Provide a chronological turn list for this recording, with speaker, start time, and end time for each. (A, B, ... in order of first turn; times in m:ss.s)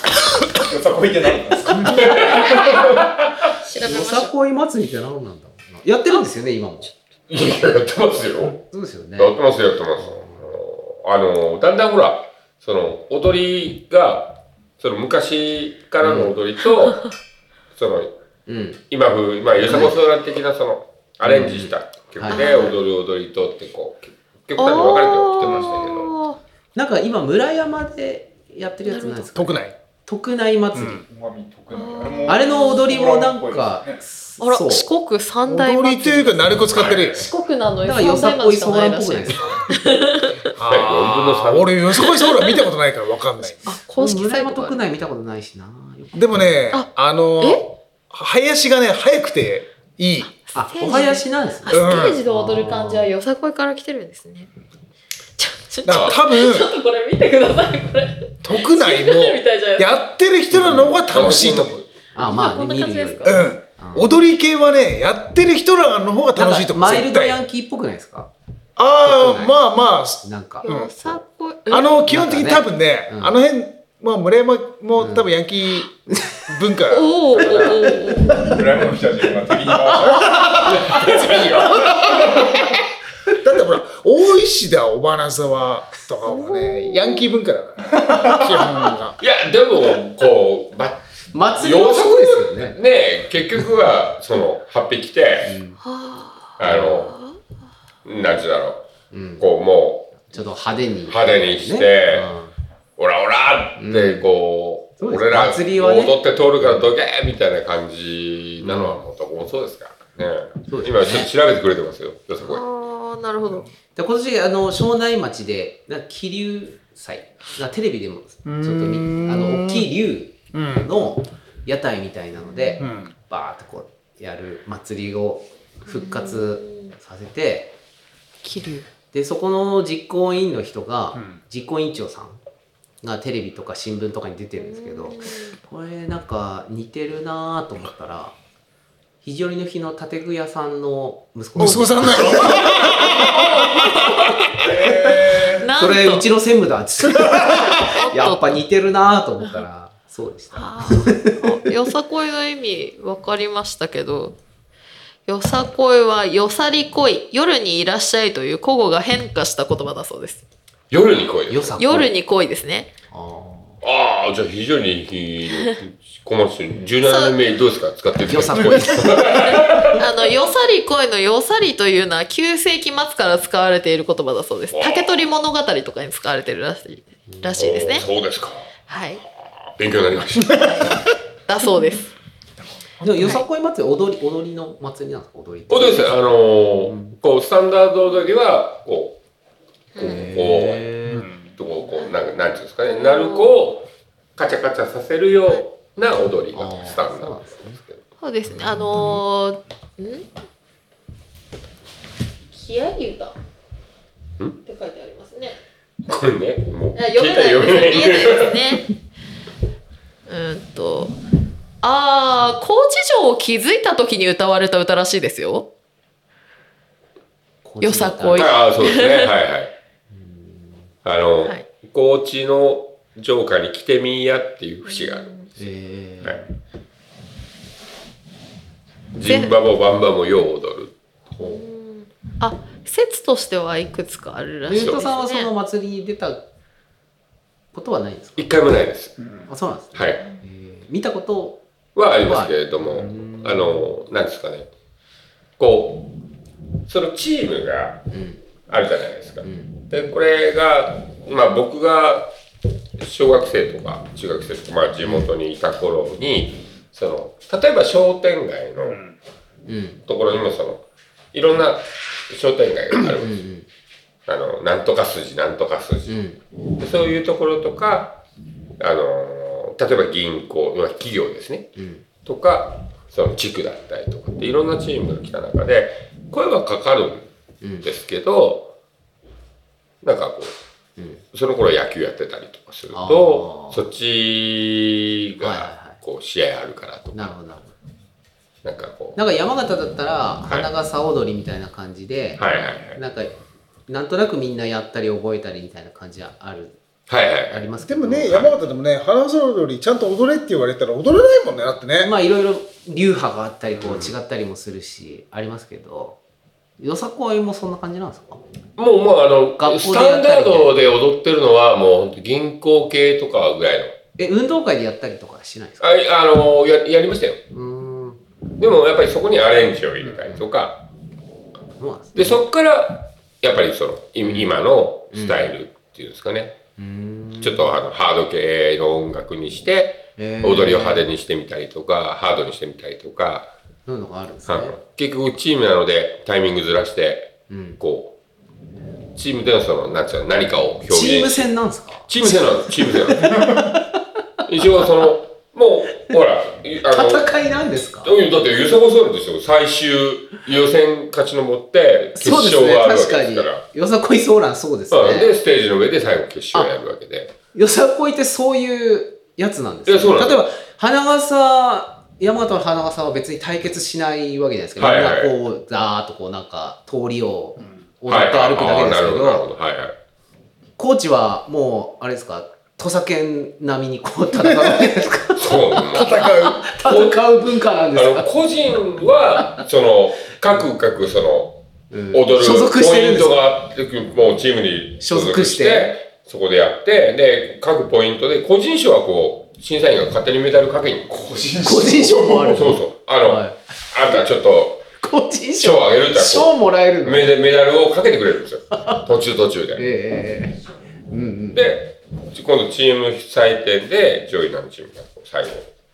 0:00.6-0:02.2 A
0:01.8-0:03.2 B
0:02.1-0:03.0 C
0:03.6-0:04.3 C
0:03.8-0:06.9 D
0:07.3-0:08.6 B
0:08.6-0:09.4 D
0:09.2-0:17.1 B
0:10.0-0:10.4 D
0:16.0-0:16.3 D
0:17.7-0:18.1 B
0:18.5-0:18.8 D
0:18.9-0:26.1 B
0:19.6-0:20.0 D
0:21.2-0:22.4 D
0:22.3-0:22.8 C
0:24.6-0:26.4 C
0:26.7-0:31.0 D
0:28.8-0:29.3 C
0:29.3-0:29.7 E
0:30.7-0:31.0 E
0:31.0-0:34.0 A
0:31.7-0:32.9 C
0:32.2-0:34.9 D
0:34.4-0:40.4 C
0:35.4-0:37.3 E
0:36.7-0:37.2 B
0:37.8-0:39.6 D
0:40.5-0:43.8 E
0:40.6-0:41.8 B
0:42.0-0:42.6 C
0:43.6-0:44.8 C
0:43.9-0:46.6 D
0:46.1-0:50.3 E
0:46.7-0:47.6 C
0:50.2-0:54.5 C
0:50.5-0:53.1 D
0:51.7-0:52.2 E
0:55.4-0:59.9 C
0:55.8-0:56.7 E
0:55.9-0:56.1 B
0:58.4-1:01.8 E
1:00.5-1:01.0 D
1:01.1-1:01.8 B
1:02.1-1:04.2 D
1:02.2-1:03.5 C
1:03.2-1:07.4 E
1:06.4-1:08.3 D
1:08.8-1:10.9 E
1:09.0-1:09.6 D
1:10.2-1:10.7 D
1:10.6-1:12.0 C
1:11.7-1:17.6 E
1:12.0-1:13.4 D
1:15.0-1:15.3 D
1:16.1-1:16.5 D
1:16.9-1:18.5 C
1:17.3-1:17.8 B
1:17.5-1:18.8 D
1:18.4-1:20.5 A
1:19.7-1:20.2 D
1:20.1-1:22.7 E
1:20.9-1:21.2 B
1:22.0-1:22.4 A
1:23.4-1:29.2 E
1:26.2-1:27.2 C
1:29.2-1:31.0 B
1:31.3-1:32.8 D
1:31.5-1:35.5 B
1:35.4-1:35.8 D
1:35.8-1:37.4 C
1:36.6-1:37.1 B
1:36.6-1:37.0 D
1:38.0-1:38.9 B
1:39.1-1:39.4 D
1:39.4-1:40.3 B
1:40.3-1:42.5 D
1:41.1-1:42.3 B
1:43.0-1:52.6 B
1:43.8-1:44.3 D
1:45.0-1:46.9 D
1:48.6-1:49.0 D
1:50.7-1:51.3 D
1:52.4-1:53.7 C
1:53.9-2:07.7 D
1:58.4-1:59.9 E
2:00.5-2:00.9 E
2:02.8-2:03.1 E
2:05.9-2:06.9 C
2:08.4-2:08.9 C
2:09.1-2:12.4 D
2:13.0-2:18.4 D
2:14.6-2:15.6 C
2:19.2-2:23.2 D
2:21.6-2:24.1 E
2:22.4-2:24.2 C
2:24.5-2:25.7 A
2:25.6-2:26.3 C
2:25.7-2:31.7 D
2:27.2-2:27.7 E
2:27.4-2:28.6 C
2:30.5-2:34.4 C
2:35.2-2:40.4 C
2:40.9-2:41.8 B
2:41.5-2:42.1 D
2:41.8-2:42.9 C
2:43.1-2:43.8 D
2:43.8-2:50.0 B
2:47.0-2:47.4 C
2:48.2-2:50.0 D
2:49.4-2:58.1 C
2:54.7-2:55.2 B
2:57.3-2:57.9 D
2:57.6-2:58.8 B
2:58.9-2:59.2 C
2:59.4-3:01.0 B
3:00.5-3:02.1 C
3:03.0-3:06.2 D
3:03.0-3:03.4 C
3:05.7-3:09.2 B
3:06.8-3:07.2 D
3:10.0-3:10.8 B
3:10.0-3:10.3 C
3:10.0-3:11.3 D
3:11.1-3:11.5 E
3:11.6-3:18.0 B
3:12.9-3:13.5 C
3:16.5-3:17.8 D
3:18.2-3:20.3 C
3:18.5-3:19.2 D
3:22.5-3:23.3 C
3:24.6-3:25.6 C
3:26.0-3:28.8 B
3:26.9-3:28.9 C
3:30.3-3:31.1 C
3:31.8-3:35.7 C
3:37.6-3:38.5 D
3:37.8-3:39.3 C
3:38.3-3:39.7 B
3:40.1-3:40.9 D
3:41.0-3:45.3 B
3:44.9-3:45.5 C
3:45.6-3:46.4 D
3:49.1-3:50.9 B
3:49.2-3:49.6 C
3:51.3-3:51.6 D
3:51.4-3:55.5 C
3:54.6-3:56.4 D
3:54.7-3:55.0 B
3:57.7-3:58.5 D
3:58.4-3:59.2 B
3:59.5-4:01.6 D
3:59.9-4:00.2 B
4:01.9-4:04.7 B
4:02.2-4:03.9 D
4:05.6-4:06.1 B
4:06.9-4:08.0 B
4:08.1-4:08.4 D
4:08.7-4:12.3 B
4:09.4-4:09.8 D
4:13.0-4:19.0 B
4:15.0-4:15.3 D
4:19.7-4:20.0 D
4:20.1-4:23.4 B
4:23.1-4:23.7 D
4:24.3-4:26.2 B
4:26.1-4:26.4 D
4:26.8-4:28.2 B
4:28.8-4:37.3 B
4:31.8-4:32.0 D
4:37.6-4:37.9 D
4:37.8-4:38.7 B
4:40.0-4:40.5 B
4:41.0-4:41.2 D
4:41.3-4:47.3 B
4:42.9-4:43.9 D
4:45.4-4:46.0 D
4:47.1-4:47.7 D
4:48.6-4:49.2 B
4:49.2-4:53.3 D
4:52.4-4:53.0 B
4:53.9-4:56.8 D
4:57.1-4:57.6 B
4:57.5-4:58.5 D
4:57.8-5:02.1 E
5:02.0-5:06.2 D
5:03.8-5:04.1 B
5:06.8-5:08.4 D
5:08.8-5:14.0 B
5:09.6-5:10.7 D
5:14.2-5:16.0 D
5:15.8-5:17.4 B
5:17.5-5:18.2 D
5:18.6-5:20.8 B
5:21.8-5:22.4 D
5:22.1-5:26.6 B
5:24.2-5:25.5 D
5:26.8-5:27.7 D
5:27.4-5:33.5 B
5:30.2-5:31.1 D
5:33.8-5:34.7 D
5:34.5-5:38.1 B
5:37.5-5:37.8 D
5:39.2-5:41.5 B
5:40.9-5:44.0 D
5:42.1-5:43.5 B
5:44.4-5:47.4 B
5:46.9-5:48.1 D
5:48.0-5:53.6 B
5:52.1-5:55.3 D
5:54.9-5:57.3 B
5:57.5-6:09.4 D
5:59.8-6:00.4 B
6:04.8-6:05.3 B
6:08.1-6:10.0 B
6:10.8-6:18.3 D
6:15.4-6:17.3 B
6:15.9-6:16.6 E
6:17.9-6:21.6 B
6:19.4-6:19.6 D
6:21.9-6:23.4 D
6:22.1-6:34.9 B
6:25.0-6:25.9 D
6:31.1-6:31.8 E
6:31.6-6:33.6 D
6:35.0-6:37.3 D
6:35.6-6:39.8 B
6:38.7-6:39.0 D
6:39.8-6:41.7 D
6:41.5-6:45.7 B